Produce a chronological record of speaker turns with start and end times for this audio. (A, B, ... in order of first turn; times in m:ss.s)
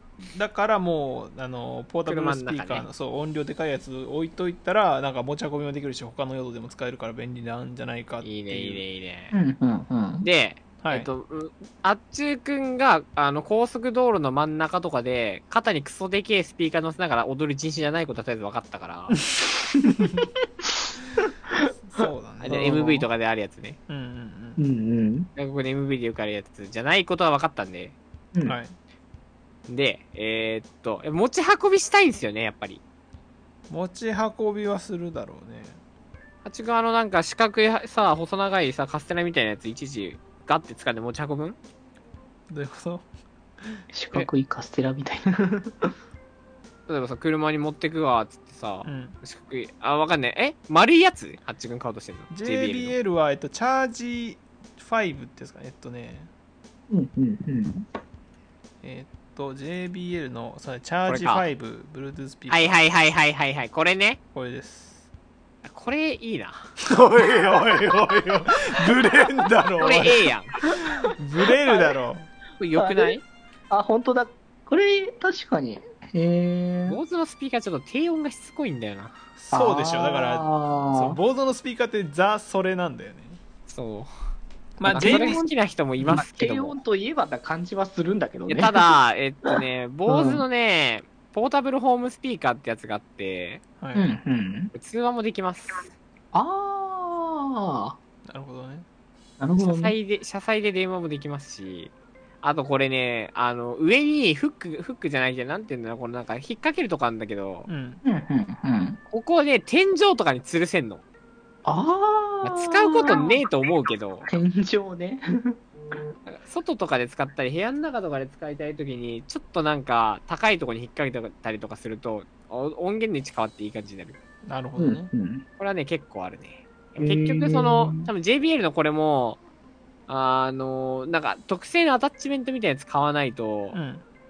0:00.3-0:08.8 A
0:02.0-0:02.9 B
0:08.2-0:09.3 B
0:09.3-0:10.3 C
0:10.2-0:19.2 B
0:10.8-0:11.1 A
0:19.8-0:20.2 C
0:19.8-0:20.2 A
0:21.8-0:23.1 A
0:22.4-0:23.8 B
0:23.9-0:24.6 A
0:24.6-0:25.3 C
0:25.3-0:28.0 B
0:28.4-0:28.7 A
0:29.7-0:32.8 B
0:33.7-0:35.8 A
0:36.4-0:41.6 B
0:42.5-0:43.1 A
0:43.9-0:45.7 C
0:46.9-0:53.0 B
0:48.8-0:49.2 A
0:52.3-0:56.3 A
0:56.9-0:57.8 C
0:58.8-1:02.8 A
1:01.1-1:01.4 B
1:02.5-1:04.2 B
1:04.3-1:05.1 A
1:05.6-1:06.6 B
1:06.8-1:12.3 A
1:09.8-1:10.5 B
1:11.6-1:11.9 C
1:12.6-1:13.2 B
1:12.7-1:13.2 C
1:13.7-1:17.0 C
1:16.9-1:19.1 B
1:19.4-1:23.4 A
1:19.5-1:21.2 C
1:23.7-1:24.1 B
1:24.8-1:25.4 A
1:24.8-1:26.8 B
1:24.9-1:25.5 C
1:26.1-1:28.9 C
1:28.5-1:33.6 B
1:30.1-1:30.4 C
1:33.8-1:34.1 A
1:33.9-1:34.7 C
1:34.7-1:35.9 B
1:36.3-1:38.0 C
1:38.3-1:38.8 A
1:39.4-1:40.0 C
1:39.6-1:47.7 B
1:47.7-1:48.0 A
1:48.0-1:49.0 C
1:49.1-1:51.0 B
1:51.6-1:53.4 C
1:52.4-1:54.3 B
1:54.3-1:55.2 C
1:56.2-2:04.2 B
2:04.4-2:05.1 A
2:04.8-2:05.4 C
2:05.6-2:09.4 B
2:07.0-2:08.1 C
2:10.1-2:13.8 B
2:13.7-2:14.0 A